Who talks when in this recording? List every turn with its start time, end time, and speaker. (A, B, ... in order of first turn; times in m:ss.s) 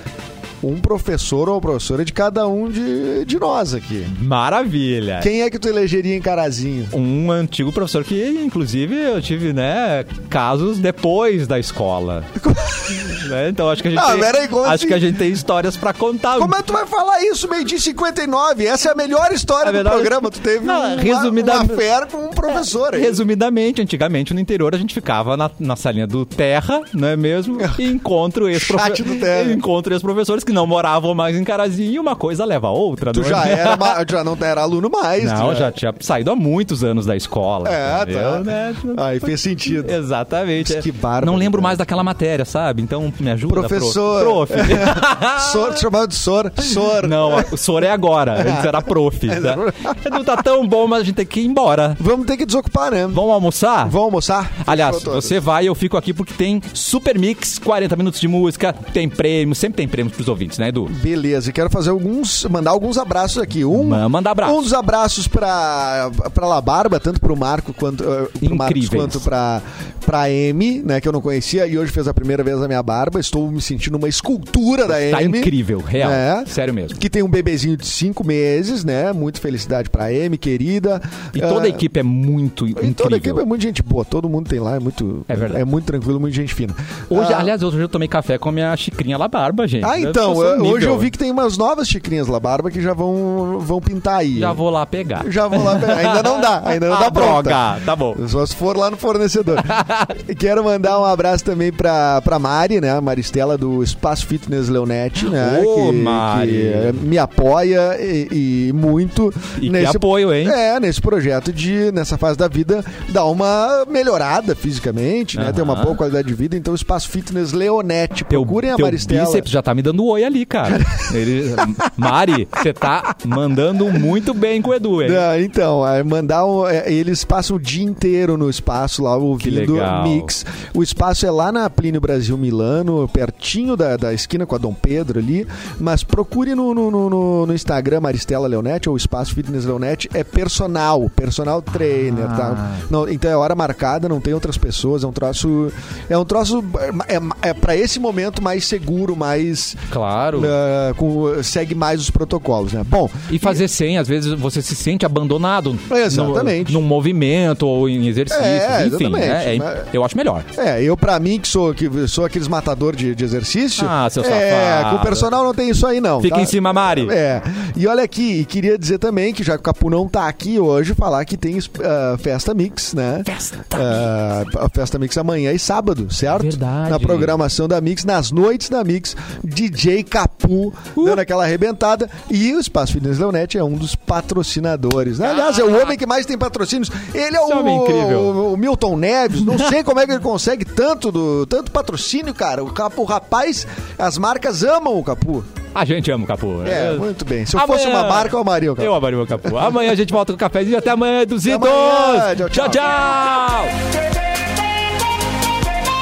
0:00.6-0:04.1 A
0:04.1-0:05.3 B
0:05.2-0:06.9 A
0:06.9-0:12.3 B
0:12.4-0:13.2 A
0:13.0-0:16.6 B
0:13.9-0:15.2 A
0:16.4-0:23.2 A
0:19.6-0:21.8 B
0:22.9-0:34.0 B
0:27.6-0:27.8 A
0:28.5-0:29.6 A
0:33.1-0:35.7 A
0:35.2-0:39.0 B
0:37.6-0:40.0 A
0:39.8-0:45.8 B
0:40.6-0:41.8 A
0:43.5-0:47.5 A
0:46.9-0:52.0 B
0:48.4-0:49.9 A
0:52.0-0:53.2 A
0:53.1-0:54.0 B
0:53.8-0:55.4 A
0:54.6-1:00.9 B
1:00.9-1:21.8 A
1:03.7-1:04.7 B
1:08.4-1:09.2 B
1:14.9-1:17.0 B
1:21.3-1:23.4 B
1:22.8-1:27.5 A
1:25.3-1:25.6 B
1:27.1-1:31.1 B
1:29.8-1:34.6 A
1:34.4-1:38.2 B
1:35.2-1:59.5 A
1:39.6-1:40.1 B
1:45.2-1:47.0 B
1:49.6-1:50.6 B
1:55.3-1:56.0 B
1:58.3-2:05.2 B
2:05.0-2:33.6 A
2:09.4-2:10.3 B
2:21.9-2:22.8 B
2:29.9-2:30.5 B
2:33.3-2:40.4 B
2:35.9-2:36.8 A
2:38.3-2:39.9 A
2:40.5-3:15.5 A
2:43.8-2:45.2 B
2:46.2-2:47.1 B
2:53.3-2:54.1 B
2:56.3-2:57.3 B
3:05.2-3:05.9 B
3:07.4-3:08.3 B
3:15.7-3:23.7 B
3:16.6-3:19.7 A
3:21.4-3:22.9 A